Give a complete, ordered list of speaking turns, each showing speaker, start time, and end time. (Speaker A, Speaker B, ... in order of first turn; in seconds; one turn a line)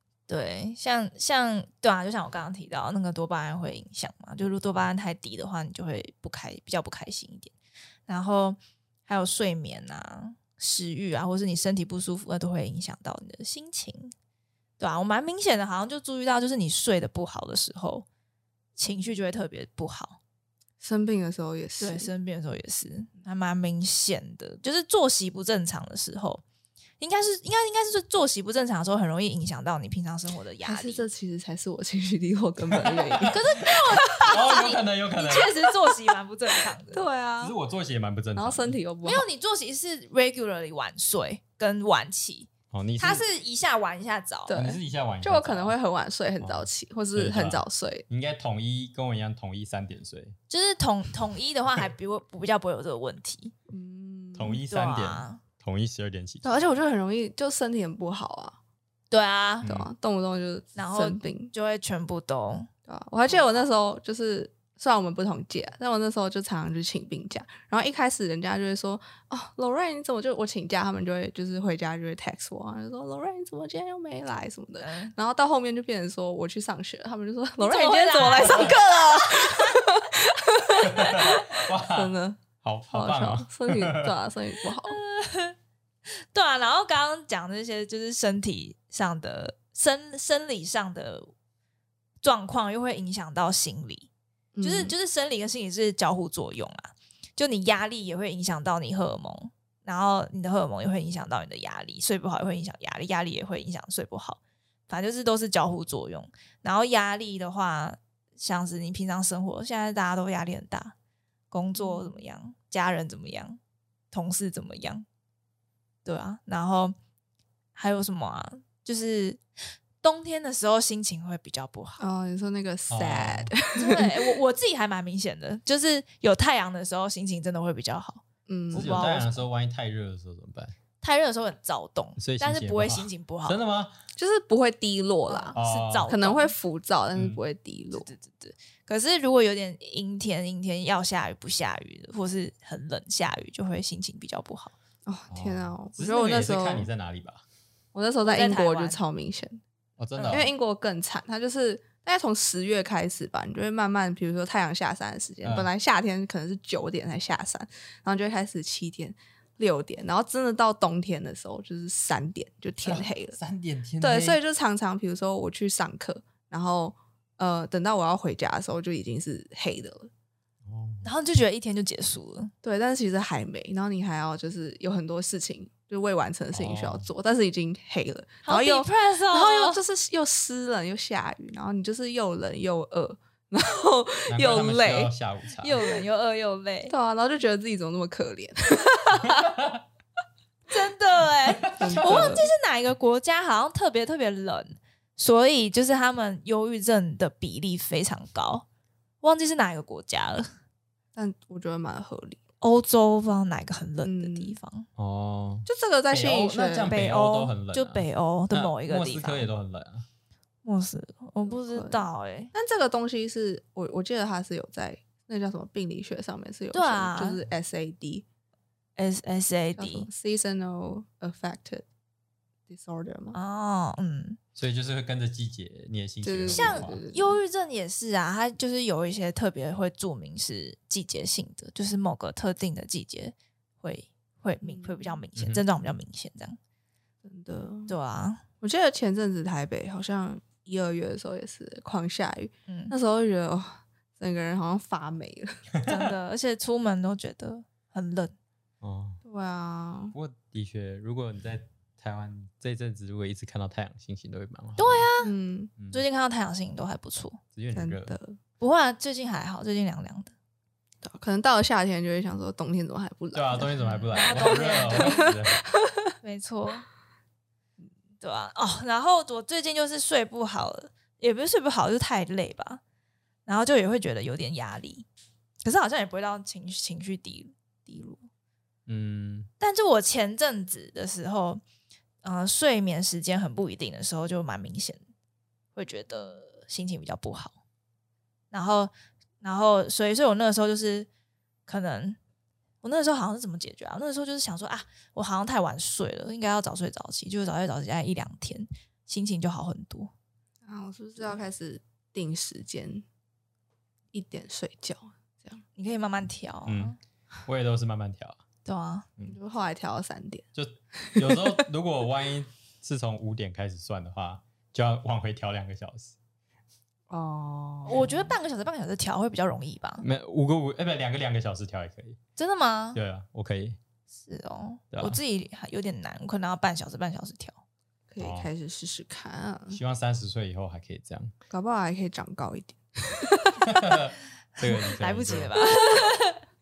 Speaker A: 0.3-7.5
Speaker A: 8.1-14.1
Speaker A: 14.8-18.1
Speaker A: 18.8-20.2
Speaker B: 20.8-22.1
Speaker A: 21.8-26.4
Speaker A: 27.0-31.0
Speaker B: 30.6-34.4
Speaker C: 32.7-33.4
Speaker A: 33.3-37.1
Speaker C: 34.2-35.5
Speaker B: 35.7-36.1
Speaker B: 36.8-37.5
Speaker C: 37.4-38.8
Speaker B: 38.4-39.3
Speaker A: 39.0-44.6
Speaker C: 42.7-43.2
Speaker B: 44.5-48.0
Speaker C: 44.5-45.8
Speaker C: 46.4-50.4
Speaker A: 50.5-53.5
Speaker B: 53.7-54.6
Speaker C: 54.4-56.5
Speaker A: 54.7-55.4
Speaker B: 56.4-58.6
Speaker A: 59.1-59.7
Speaker C: 59.6-59.9
Speaker B: 59.6-61.5
Speaker A: 60.8-62.7
Speaker B: 62.9-82.4
Speaker A: 74.8-75.1
Speaker A: 77.6-79.8
Speaker C: 80.8-84.1
Speaker B: 82.9-85.0
Speaker A: 84.8-85.6
Speaker A: 86.1-91.3
Speaker A: 92.2-94.1
Speaker B: 94.6-95.0
Speaker A: 94.6-111.0
Speaker A: 111.5-113.6
Speaker B: 111.8-112.2
Speaker A: 114.1-115.0
Speaker A: 116.0-117.0
Speaker A: 117.8-119.4
Speaker A: 120.0-122.0
Speaker B: 122.0-124.4
Speaker C: 122.9-123.5
Speaker A: 123.8-129.5
Speaker B: 128.5-128.9
Speaker C: 128.7-130.8
Speaker A: 131.0-133.6
Speaker C: 132.2-133.9
Speaker B: 134.2-135.6
Speaker A: 135.3-136.6
Speaker C: 135.6-136.1
Speaker B: 136.1-138.1
Speaker C: 137.1-137.4
Speaker A: 137.9-144.7
Speaker B: 145.1-146.9
Speaker C: 145.3-147.4
Speaker B: 147.9-149.6
Speaker A: 148.2-149.0
Speaker C: 150.0-150.5
Speaker A: 150.2-150.5
Speaker B: 150.3-163.4
Speaker C: 155.4-155.7
Speaker C: 162.8-164.4
Speaker B: 164.0-170.1
Speaker C: 170.7-171.1
Speaker A: 171.0-172.5
Speaker B: 172.6-185.1
Speaker C: 176.5-177.1
Speaker A: 178.4-179.8
Speaker C: 184.3-185.8
Speaker A: 185.6-186.9
Speaker B: 186.9-189.5
Speaker C: 189.3-189.8
Speaker A: 190.7-198.7
Speaker C: 191.6-192.4
Speaker B: 191.8-192.5
Speaker A: 199.2-200.5
Speaker B: 201.2-202.4
Speaker A: 202.6-204.9
Speaker B: 204.0-204.6
Speaker C: 205.0-210.1
Speaker B: 205.7-206.9
Speaker A: 206.9-209.5
Speaker A: 210.6-212.5
Speaker B: 211.4-218.3
Speaker A: 216.7-217.4
Speaker A: 219.0-220.1
Speaker B: 219.8-221.9
Speaker B: 222.7-223.4
Speaker A: 223.3-224.4
Speaker C: 224.6-227.0
Speaker B: 226.2-227.4
Speaker A: 226.5-236.6
Speaker B: 234.6-235.2
Speaker C: 235.4-235.6
Speaker B: 237.2-237.9
Speaker A: 237.9-238.4
Speaker B: 238.6-245.6
Speaker A: 242.7-242.9
Speaker A: 245.8-248.3
Speaker C: 248.8-249.2
Speaker B: 249.2-250.2
Speaker C: 250.1-255.1
Speaker A: 254.8-255.3
Speaker B: 255.2-255.7
Speaker C: 255.8-256.0
Speaker A: 255.9-257.4
Speaker C: 257.5-258.2
Speaker B: 257.7-258.4
Speaker A: 258.6-260.3
Speaker B: 261.0-265.3
Speaker C: 263.3-265.6
Speaker A: 263.8-265.3
Speaker B: 265.9-266.1
Speaker A: 266.2-266.9
Speaker A: 268.2-272.8
Speaker A: 273.5-275.1
Speaker A: 275.6-278.2
Speaker C: 278.9-279.5
Speaker A: 279.6-281.6
Speaker A: 282.2-285.0
Speaker A: 285.8-287.6
Speaker A: 288.5-291.1
Speaker A: 291.7-292.2
Speaker A: 292.8-300.1
Speaker B: 300.6-303.1
Speaker B: 304.1-305.6
Speaker A: 305.8-307.0
Speaker C: 306.7-308.4
Speaker A: 308.6-309.1
Speaker B: 309.3-310.5
Speaker C: 310.6-316.2
Speaker B: 311.1-311.4
Speaker B: 317.1-318.4
Speaker A: 317.9-320.0
Speaker C: 320.0-322.2
Speaker A: 322.4-323.0
Speaker C: 322.9-323.8
Speaker A: 324.2-327.6
Speaker C: 324.9-325.2
Speaker B: 328.1-329.8
Speaker C: 328.2-328.5
Speaker C: 329.7-331.3
Speaker B: 331.5-333.7
Speaker C: 333.6-335.6
Speaker A: 334.7-336.4